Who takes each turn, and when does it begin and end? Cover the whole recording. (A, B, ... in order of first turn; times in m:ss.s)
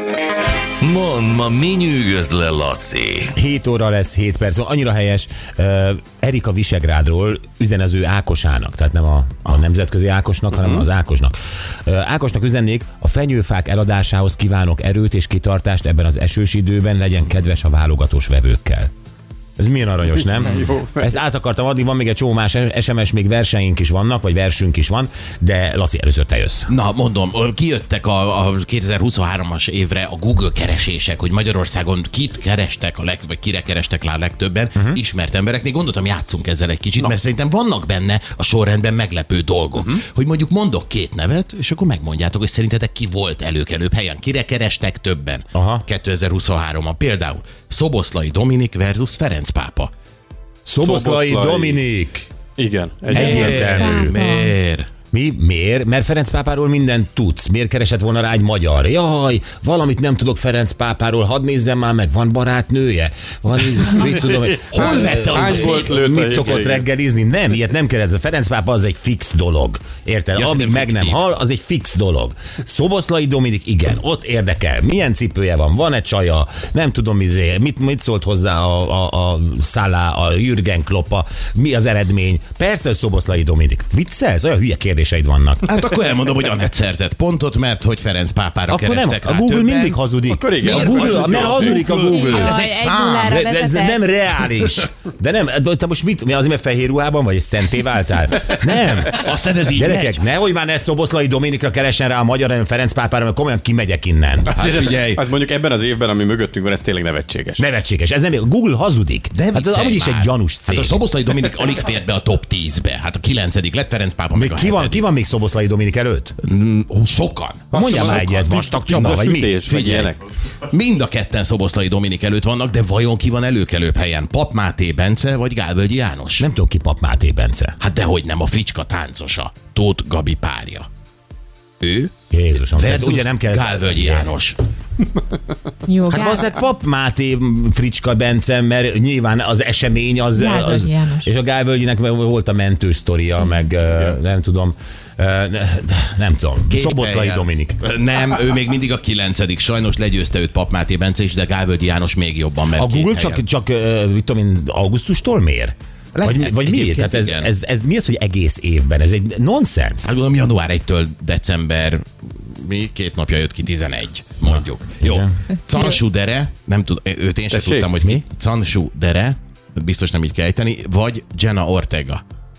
0:00.8-0:03.3 A
0:03.3-0:11.3 B
0:11.8-0:18.9 B
0:19.6-0:26.7 B
0:20.3-0:21.1 C
0:26.7-0:49.9 D
0:39.7-0:40.0 C
0:45.5-0:45.8 B
0:50.6-0:52.3 B
0:50.8-0:51.8 C
0:52.6-0:53.8 C
0:53.1-0:54.2 B
0:53.1-0:54.9 D
0:53.2-0:54.5 E
0:55.1-1:25.7 B
1:04.6-1:05.9 D
1:04.7-1:06.8 C
1:10.3-1:11.2 D
1:25.6-1:30.0 D
1:28.7-1:32.6 B
1:30.3-1:31.9 C
1:30.6-1:33.4 D
1:31.5-1:34.1 E
1:33.2-1:44.6 B
1:39.0-1:40.2 D
1:44.5-1:47.6 C
1:44.5-1:45.2 D
1:47.6-1:51.0 B
1:49.3-1:55.0 D
1:54.3-1:56.3 B
1:56.4-1:58.2 D
1:57.7-1:59.6 B
1:57.7-2:00.2 C
1:59.7-2:00.1 D
2:00.6-2:06.5 D
2:06.4-2:07.8 B
2:07.8-2:10.9 D
2:11.8-2:14.6 D
2:12.3-2:14.3 B
2:15.9-2:16.4 E
2:16.1-2:27.8 B
2:20.3-2:21.3 E
2:26.7-2:33.4 D
2:32.8-2:40.1 B
2:36.1-2:37.5 D
2:40.0-2:52.2 D
2:45.0-2:45.3 B
2:47.5-2:47.9 C